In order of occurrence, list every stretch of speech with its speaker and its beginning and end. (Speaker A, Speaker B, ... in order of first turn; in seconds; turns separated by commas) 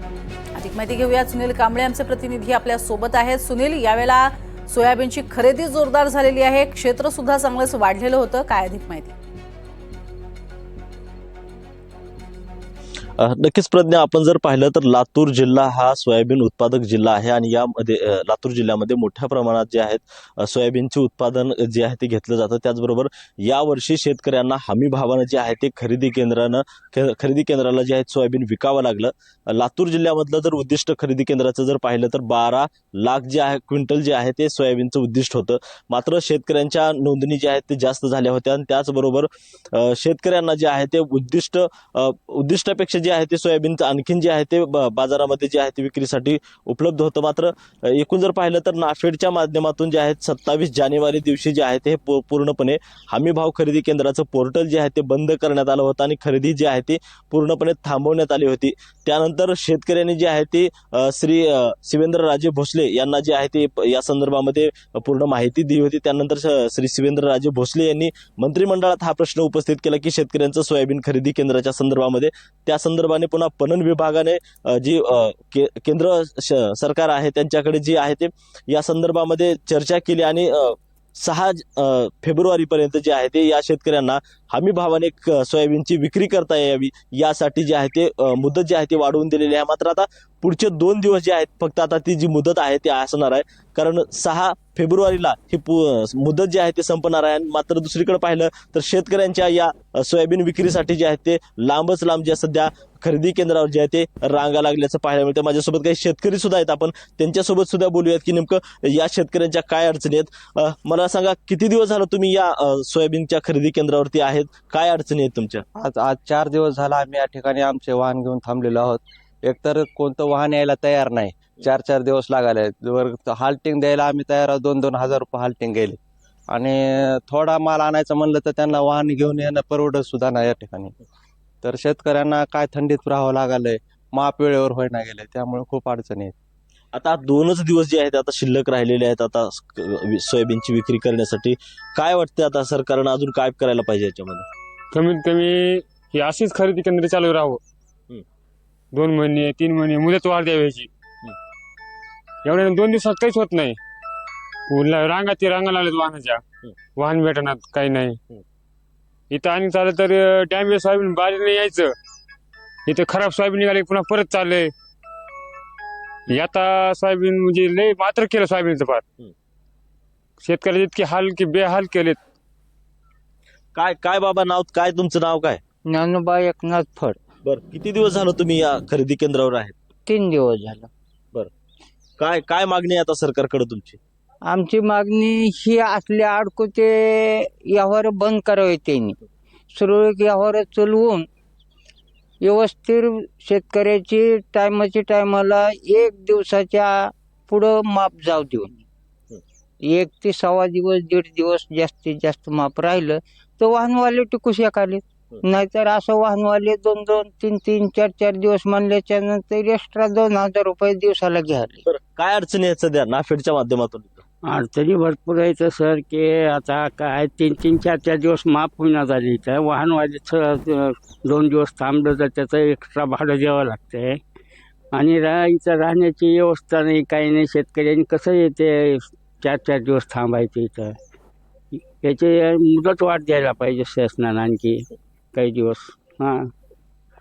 Speaker A: 0.5-9.1, Speaker B: 13.2-115.6, Speaker C: 115.8-126.0, Speaker C: 126.5-130.9, Speaker C: 131.6-136.3, Speaker B: 136.9-144.4, Speaker D: 144.9-147.6, Speaker D: 148.9-150.9, Speaker D: 152.4-153.8, Speaker D: 154.7-156.4, Speaker D: 156.9-158.2, Speaker D: 159.3-161.9, Speaker D: 162.9-164.7, Speaker D: 166.3-169.0, Speaker D: 170.4-172.2, Speaker B: 173.7-175.6, Speaker E: 175.9-177.2, Speaker B: 177.4-179.7, Speaker E: 180.1-180.9, Speaker B: 182.2-184.0, Speaker E: 184.5-189.2, Speaker E: 189.7-191.2, Speaker E: 192.4-198.8, Speaker E: 199.8-211.8, Speaker B: 211.8-214.2, Speaker F: 214.4-224.2, Speaker F: 224.9-230.9, Speaker F: 231.7-234.8, Speaker F: 235.3-236.5